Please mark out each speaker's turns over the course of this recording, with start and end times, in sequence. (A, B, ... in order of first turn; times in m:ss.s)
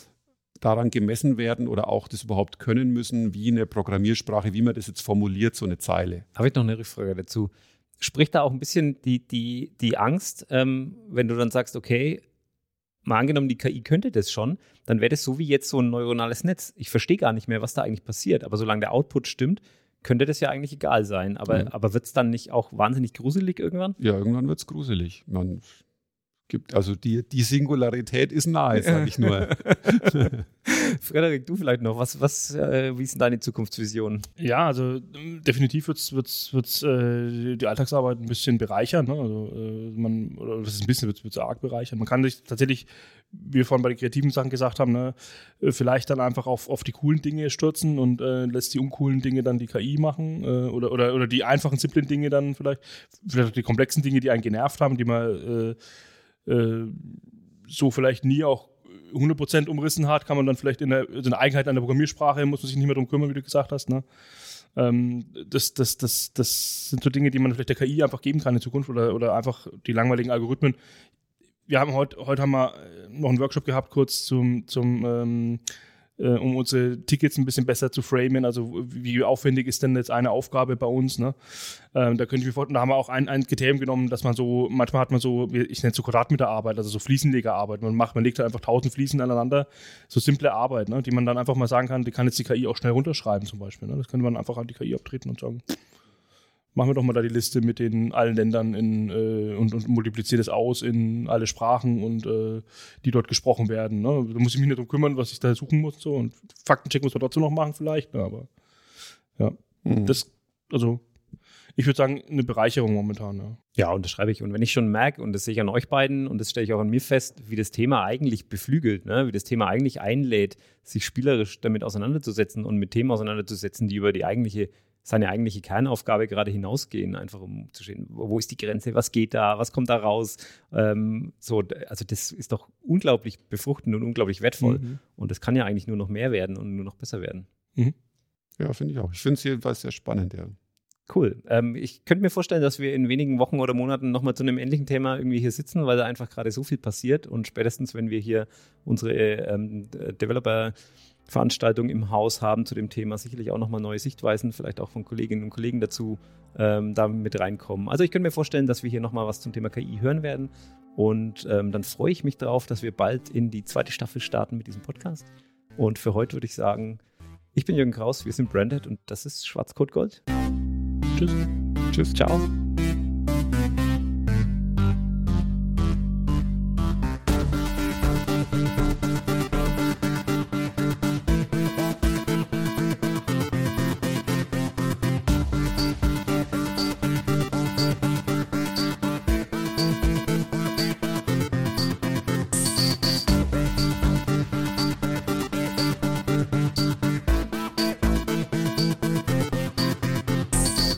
0:00.6-0:06.2 A
0:06.4-0:12.2 B
0:13.0-0:24.0 B
0:24.0-0:25.8 A
0:26.5-0:30.4 A
0:28.8-0:34.3 B
0:34.4-0:55.8 C
0:56.5-1:04.0 C
1:04.8-1:10.8 C
1:11.7-1:15.6 C
1:16.2-1:21.4 C
1:21.9-1:35.6 C
1:36.8-1:48.5 C
1:49.4-1:51.0 C
1:49.8-1:50.2 A
1:51.8-1:53.6 C
1:53.8-2:17.5 B
2:14.6-2:15.0 C
2:18.6-2:20.6 A
2:21.1-2:30.7 B
2:31.3-2:47.0 B
2:47.6-2:50.2 B
2:52.1-2:52.5 B